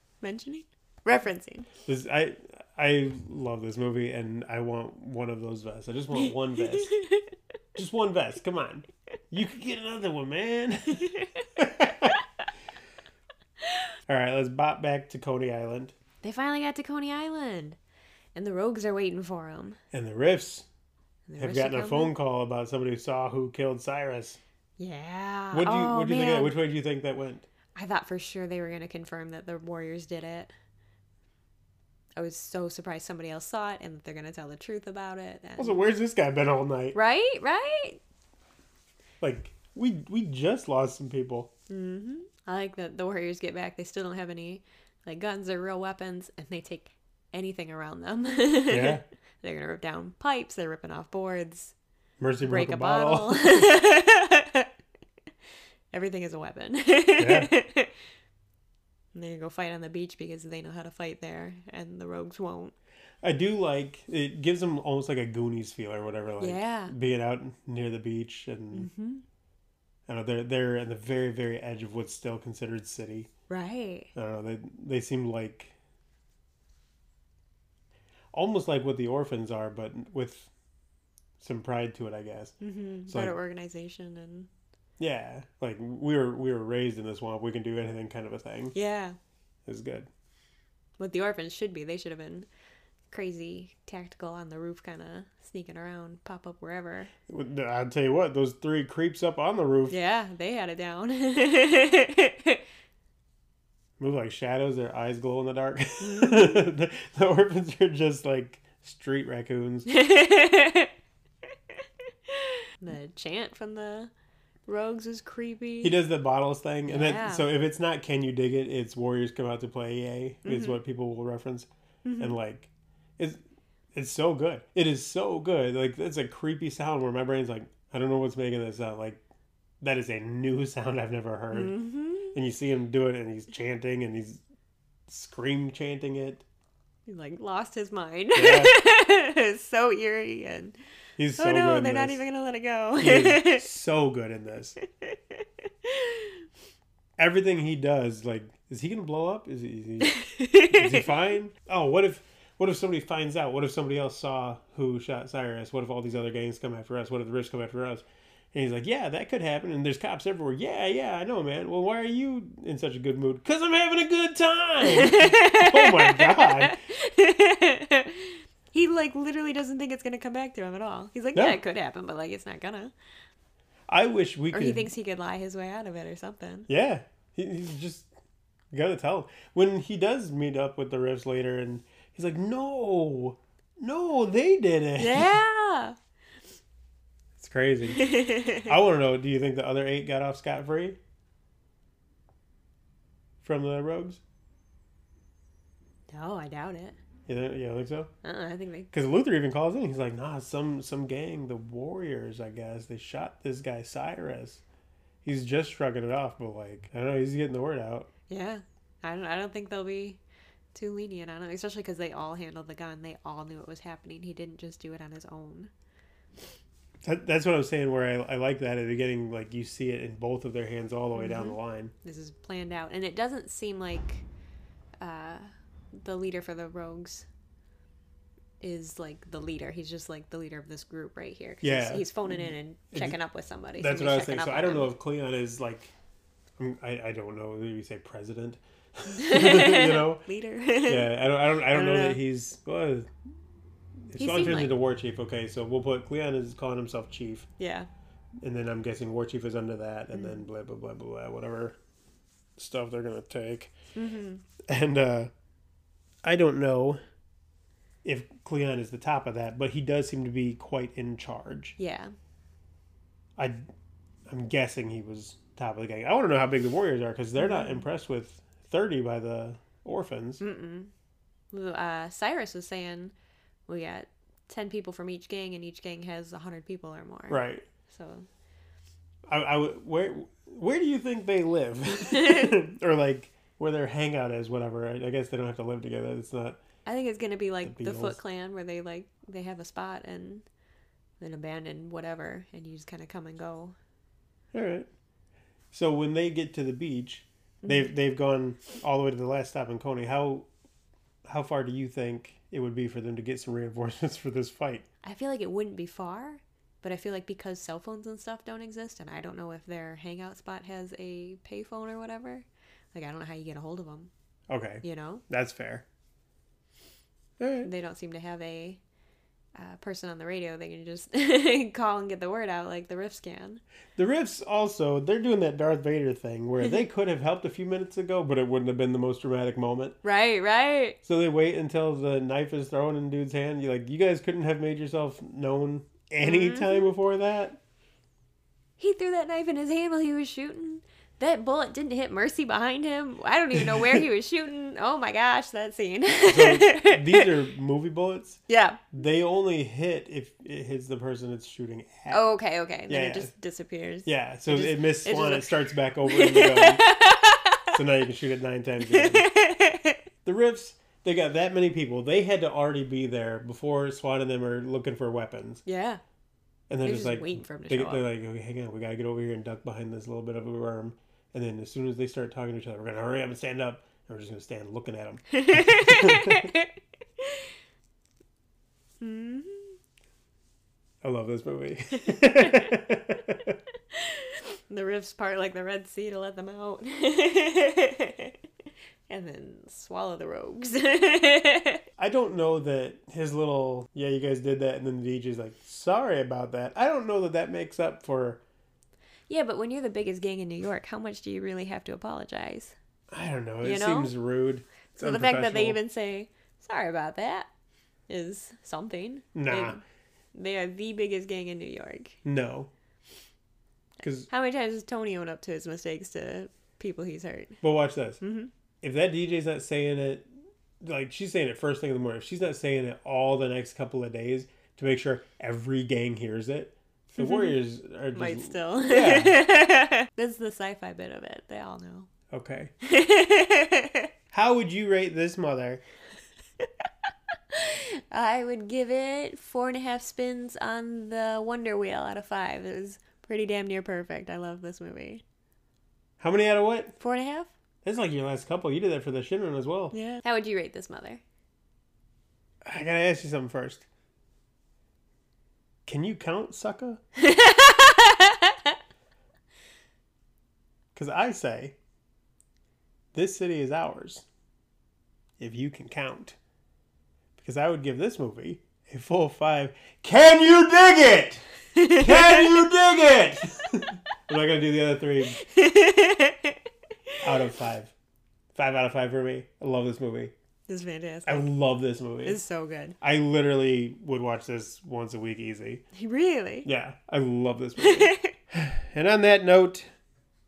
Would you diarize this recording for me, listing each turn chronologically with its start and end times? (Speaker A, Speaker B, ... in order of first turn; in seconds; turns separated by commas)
Speaker A: 0.2-1.7, Speaker B: 1.9-7.0, Speaker A: 6.1-7.3, Speaker B: 7.8-12.2, Speaker A: 11.0-11.4, Speaker A: 13.6-13.9, Speaker B: 14.1-15.9, Speaker A: 16.2-17.8, Speaker A: 18.4-19.8, Speaker B: 19.9-20.7, Speaker A: 21.3-22.1, Speaker B: 21.4-24.4, Speaker A: 24.8-26.6, Speaker B: 25.5-27.4, Speaker A: 27.8-30.5, Speaker A: 32.1-35.8, Speaker B: 35.6-37.0, Speaker A: 36.9-38.0, Speaker B: 39.2-41.5, Speaker A: 41.7-51.7, Speaker B: 48.7-49.0, Speaker B: 52.2-53.7, Speaker A: 52.4-54.7, Speaker A: 55.9-57.9, Speaker B: 57.2-57.5, Speaker A: 59.1-62.7, Speaker B: 63.2-68.9, Speaker A: 66.4-66.9, Speaker A: 68.7-69.2, Speaker B: 70.1-73.3, Speaker A: 73.5-74.1, Speaker B: 74.1-75.8, Speaker B: 78.3-80.5, Speaker B: 81.4-82.5, Speaker A: 82.6-84.5, Speaker B: 83.1-83.4, Speaker B: 85.0-88.8, Speaker A: 88.7-89.2, Speaker B: 89.7-90.1, Speaker A: 91.0-92.5, Speaker A: 93.1-97.1, Speaker B: 97.3-100.0, Speaker A: 99.9-102.6, Speaker B: 104.0-109.9, Speaker A: 106.0-106.6, Speaker A: 109.9-110.9, Speaker A: 112.3-114.1, Speaker A: 114.7-116.0, Speaker B: 115.8-123.4, Speaker A: 116.9-117.5, Speaker A: 120.4-120.8, Speaker A: 122.0-122.4, Speaker B: 123.9-129.2, Speaker B: 129.8-131.8, Speaker A: 131.5-132.3, Speaker B: 132.3-134.4, Speaker B: 135.1-136.4, Speaker A: 137.1-140.8, Speaker B: 138.3-138.8, Speaker B: 141.2-142.2, Speaker A: 141.4-143.7, Speaker B: 143.0-144.8, Speaker A: 144.9-146.4, Speaker B: 147.2-150.2, Speaker A: 150.0-151.1, Speaker B: 150.7-166.8, Speaker A: 164.8-172.9, Speaker B: 173.9-174.9, Speaker A: 174.5-176.7, Speaker B: 176.7-178.1, Speaker B: 178.7-185.4, Speaker A: 185.0-186.0, Speaker B: 187.4-191.0, Speaker A: 187.9-188.7, Speaker B: 193.4-194.2, Speaker A: 196.1-197.0, Speaker B: 197.3-198.1, Speaker A: 198.2-198.9, Speaker B: 198.9-204.6, Speaker B: 205.2-208.1, Speaker A: 208.3-210.2, Speaker A: 210.7-215.7, Speaker B: 217.0-221.9, Speaker A: 221.2-224.2, Speaker A: 225.0-227.3, Speaker A: 228.6-234.9, Speaker B: 231.6-233.2, Speaker B: 233.8-235.9, Speaker B: 236.6-240.2, Speaker A: 239.1-242.2, Speaker B: 240.8-243.1, Speaker B: 244.1-247.5, Speaker A: 244.2-244.7, Speaker A: 247.6-247.9, Speaker B: 248.4-251.8, Speaker A: 250.1-250.4, Speaker B: 252.6-253.7, Speaker A: 253.9-254.4, Speaker B: 254.7-255.3, Speaker B: 256.2-257.0, Speaker B: 258.0-261.8, Speaker A: 261.8-262.1, Speaker B: 263.4-263.6, Speaker B: 264.3-270.4, Speaker A: 267.4-267.9, Speaker A: 270.4-270.9, Speaker A: 271.5-273.1, Speaker A: 273.7-278.3, Speaker B: 277.3-277.6, Speaker B: 279.3-286.6, Speaker A: 282.1-282.6, Speaker A: 286.9-290.5, Speaker B: 287.6-288.2, Speaker A: 291.2-293.8, Speaker B: 294.5-294.9, Speaker B: 295.7-300.5, Speaker A: 297.6-297.9, Speaker B: 301.2-304.9, Speaker A: 305.0-314.1, Speaker B: 314.5-315.9, Speaker A: 314.8-315.2, Speaker B: 317.4-317.7, Speaker A: 317.6-318.8, Speaker A: 319.6-323.6, Speaker B: 324.0-330.0, Speaker A: 330.0-331.0, Speaker B: 331.0-337.6, Speaker A: 336.2-336.9, Speaker A: 338.8-347.3, Speaker B: 346.2-348.4, Speaker A: 348.5-348.9, Speaker B: 348.9-352.2, Speaker A: 352.1-357.8, Speaker B: 352.9-353.3, Speaker B: 354.1-356.9, Speaker B: 357.7-359.3, Speaker A: 358.8-360.0, Speaker B: 360.2-365.6, Speaker A: 365.6-366.0, Speaker B: 366.7-376.5, Speaker A: 366.8-368.1, Speaker A: 375.3-377.5, Speaker A: 379.0-379.8, Speaker B: 381.0-383.6, Speaker A: 382.1-382.7, Speaker A: 383.9-388.4, Speaker A: 389.1-391.8, Speaker B: 392.0-398.4, Speaker A: 399.3-402.8, Speaker B: 403.1-405.8, Speaker A: 403.6-404.1, Speaker A: 405.0-407.5, Speaker A: 408.1-409.8, Speaker B: 409.4-409.8, Speaker A: 410.4-412.2, Speaker B: 412.2-412.7, Speaker B: 414.0-414.3, Speaker A: 414.3-417.6, Speaker B: 417.6-418.2, Speaker A: 418.2-418.5, Speaker B: 418.8-420.3, Speaker B: 420.8-429.4, Speaker A: 427.2-427.6, Speaker A: 428.1-432.1, Speaker B: 432.3-432.7, Speaker A: 432.8-434.1, Speaker B: 434.3-435.8, Speaker A: 437.5-445.2, Speaker B: 446.2-447.0, Speaker A: 447.0-447.5, Speaker B: 447.8-449.9, Speaker A: 449.9-451.2, Speaker B: 452.6-453.9, Speaker B: 455.9-457.0, Speaker A: 457.2-458.8, Speaker B: 460.9-461.8, Speaker B: 463.1-464.2, Speaker B: 465.4-466.4, Speaker B: 467.4-475.4, Speaker A: 471.8-472.3, Speaker A: 475.3-476.6, Speaker B: 477.2-477.9, Speaker B: 478.5-480.3, Speaker A: 480.7-481.5, Speaker B: 481.2-482.4, Speaker A: 482.2-483.0, Speaker B: 483.0-485.9, Speaker A: 485.9-486.7, Speaker B: 486.6-489.9, Speaker A: 487.8-488.3